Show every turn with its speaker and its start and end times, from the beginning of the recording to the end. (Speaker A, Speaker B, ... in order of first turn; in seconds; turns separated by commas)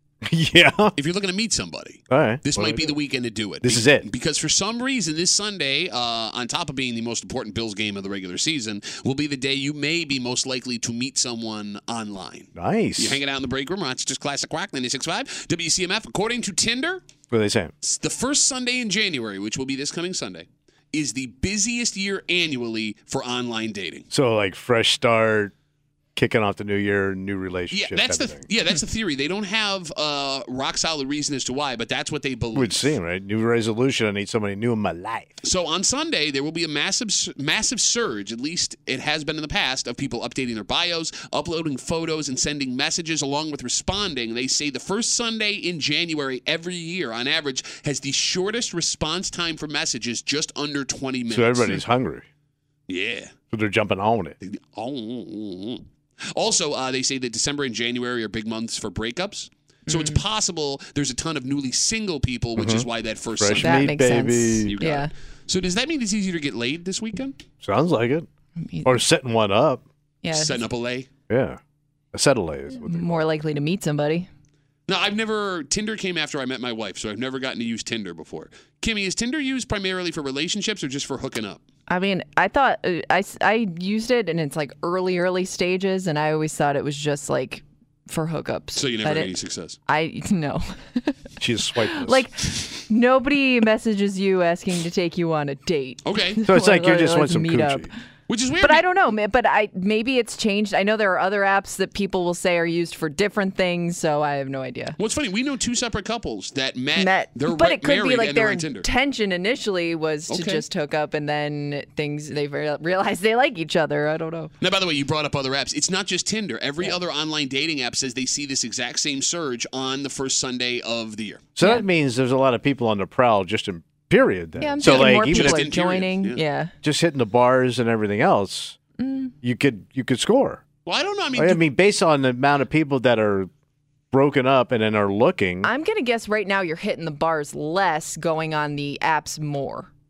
Speaker A: 0.2-0.9, Speaker B: 0.9-17.0, Speaker A: 2.1-2.9, Speaker A: 3.6-4.1, Speaker A: 12.5-13.2, Speaker A: 17.3-17.7, Speaker B: 17.8-24.1, Speaker A: 24.1-25.5, Speaker A: 26.1-28.4, Speaker B: 27.7-32.9, Speaker A: 32.5-35.4, Speaker B: 35.4-51.8, Speaker A: 51.3-52.2, Speaker B: 52.9-53.3, Speaker A: 53.5-54.4, Speaker B: 54.4-63.9, Speaker C: 59.9-60.2, Speaker A: 62.6-62.9, Speaker A: 63.4-64.7, Speaker C: 63.6-65.1, Speaker B: 64.7-67.4, Speaker A: 67.6-68.3, Speaker C: 68.6-69.0, Speaker A: 68.8-69.8, Speaker C: 70.2-70.7, Speaker B: 70.3-71.1, Speaker A: 71.3-71.6, Speaker A: 72.1-73.3, Speaker C: 72.8-74.3, Speaker B: 74.9-81.6, Speaker C: 81.9-89.3, Speaker B: 88.7-89.8, Speaker C: 89.8-91.2, Speaker A: 91.4-92.3, Speaker C: 91.8-97.9, Speaker B: 96.0-96.4, Speaker A: 96.5-97.9, Speaker B: 98.3-98.8, Speaker C: 98.6-105.0, Speaker B: 105.0-108.9, Speaker C: 106.9-114.5, Speaker B: 110.3-110.6, Speaker B: 114.6-121.4, Speaker A: 121.5-125.6, Speaker C: 121.6-121.8, Speaker C: 124.6-126.7, Speaker B: 124.8-126.4, Speaker A: 126.8-128.8, Speaker C: 129.0-129.3, Speaker A: 129.4-130.6, Speaker B: 130.8-131.6, Speaker A: 131.3-133.5, Speaker A: 134.1-135.7, Speaker C: 135.6-139.9